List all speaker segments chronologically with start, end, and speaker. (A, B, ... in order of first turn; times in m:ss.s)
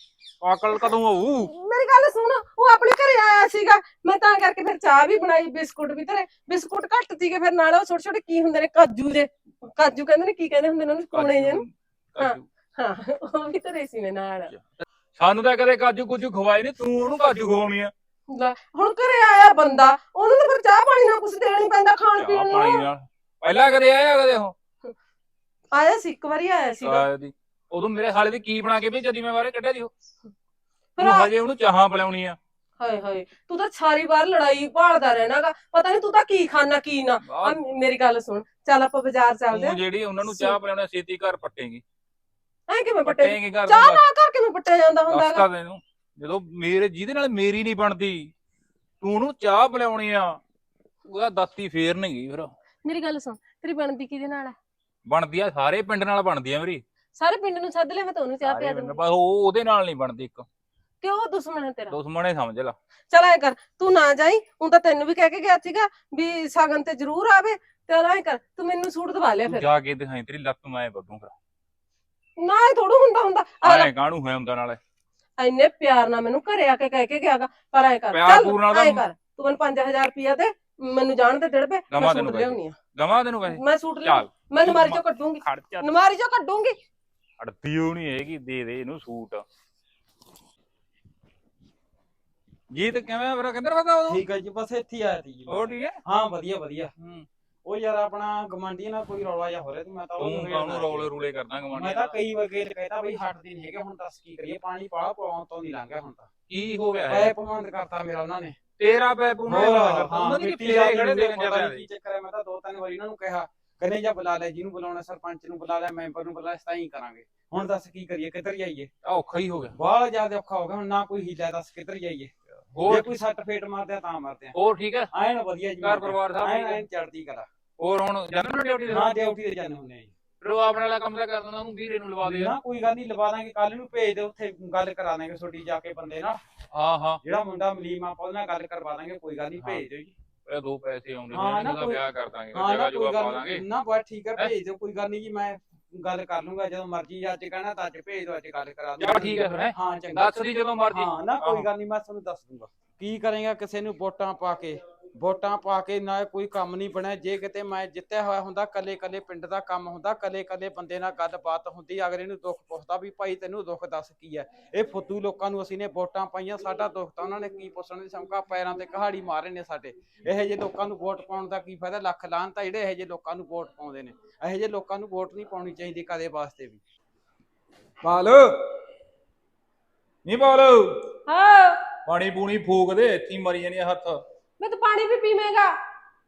0:00.4-0:01.5 A
0:01.4-0:11.6 B
0:11.1-0:12.4 A
0:12.2-0:14.5 B
0:14.5-0:17.9 A
0:18.3-0:22.8 B
0:22.2-0:24.5 A
0:25.7-0:27.0 B
0:26.8-0:29.9 A
0:31.0-0:31.3 B
0:31.0-0:32.4 A
0:32.8-0:40.6 B
0:37.2-0:37.6 A
0:39.5-0:41.8 A
0:42.7-0:45.4 B
0:43.0-0:44.0 A
0:45.1-0:48.3 A
0:49.0-0:50.4 A
0:51.0-0:52.5 A
0:52.8-0:54.6 B
0:55.0-0:56.8 A
0:57.2-0:59.0 B
0:58.4-1:00.4 A
1:01.0-1:01.9 B
1:01.9-1:02.8 A
1:03.1-1:09.7 B
1:09.4-1:11.3 A
1:12.4-1:13.9 B
1:13.6-1:14.8 A
1:15.4-1:22.8 B
1:18.1-1:19.0 A
1:21.9-1:25.9 A
1:23.4-1:26.8 B
1:27.4-1:29.4 A
1:32.7-1:34.2 A
1:34.1-1:36.9 C
1:35.5-1:36.0 A
1:37.0-1:37.2 A
1:37.6-1:41.1 C
1:40.2-1:42.1 A
1:41.7-1:46.3 C
1:46.5-1:47.3 A
1:47.1-1:48.6 C
1:48.8-1:51.8 A
1:49.5-1:58.9 C
1:59.0-1:59.8 A
1:59.7-2:04.5 C
2:02.7-2:03.1 A
2:04.5-2:05.1 A
2:05.1-2:07.5 C
2:05.8-2:06.8 A
2:07.8-2:09.1 A
2:08.9-2:10.1 C
2:10.4-2:12.5 A
2:12.2-2:16.4 C
2:16.7-2:17.2 A
2:17.2-2:20.1 C
2:19.6-2:19.8 A
2:20.4-2:23.6 A
2:21.3-2:22.0 C
2:22.5-2:56.8 C
2:29.0-2:31.7 A
2:58.0-2:58.8 A
3:00.2-3:01.1 A
3:01.3-3:01.9 B
3:02.0-3:04.2 A
3:04.6-3:05.7 B